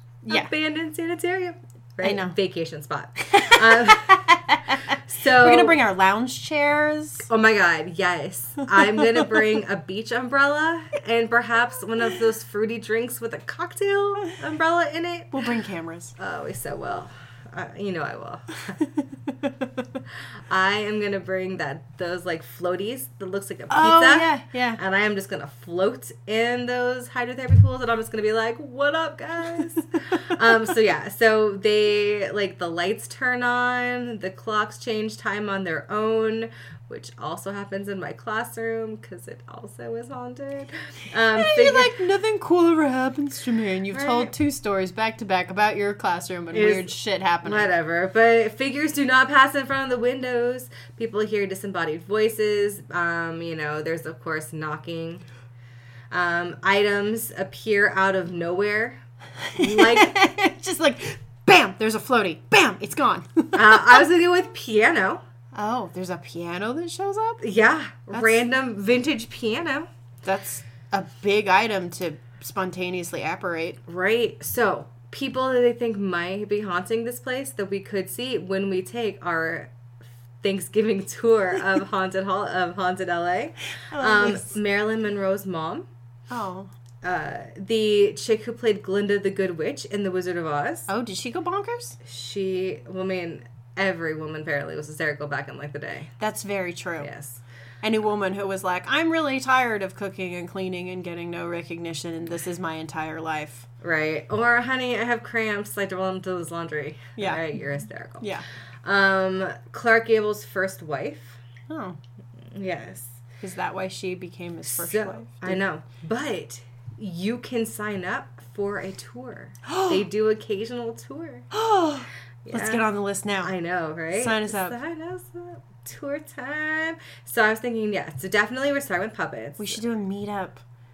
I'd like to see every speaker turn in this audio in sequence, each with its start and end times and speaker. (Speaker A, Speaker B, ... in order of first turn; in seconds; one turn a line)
Speaker A: 0.2-0.5
Speaker B: 0.3-4.2
Speaker A: 2.0-2.4
Speaker A: 3.2-7.3
Speaker B: 4.9-5.8
Speaker B: 7.3-15.5
Speaker A: 15.3-16.2
Speaker B: 16.2-18.8
Speaker A: 18.8-19.9
Speaker B: 20.5-41.9
Speaker A: 23.7-24.8
Speaker A: 41.3-47.7
Speaker B: 43.9-44.3
Speaker B: 46.5-46.9
Speaker B: 47.4-55.2
Speaker B: 56.1-59.0
Speaker A: 59.4-64.0
Speaker B: 59.5-60.1
Speaker B: 63.5-65.2
Speaker A: 65.5-67.4
Speaker B: 67.4-69.9
Speaker A: 68.1-68.4
Speaker A: 70.2-73.8
Speaker B: 73.9-79.7
Speaker B: 80.4-85.9
Speaker A: 83.9-84.5
Speaker A: 86.3-86.7
Speaker B: 87.0-90.9
Speaker A: 90.9-92.0
Speaker B: 92.0-96.1
Speaker A: 96.2-97.1
Speaker B: 97.0-97.4
Speaker A: 97.8-103.7
Speaker B: 103.8-108.3
Speaker A: 107.2-107.4
Speaker B: 108.8-111.4
Speaker A: 111.7-112.0
Speaker B: 112.5-113.2
Speaker A: 113.4-115.6
Speaker B: 114.7-121.5
Speaker A: 119.7-120.0
Speaker A: 121.5-123.5
Speaker B: 122.5-122.8
Speaker B: 123.4-129.8
Speaker A: 124.1-124.8
Speaker A: 129.6-130.6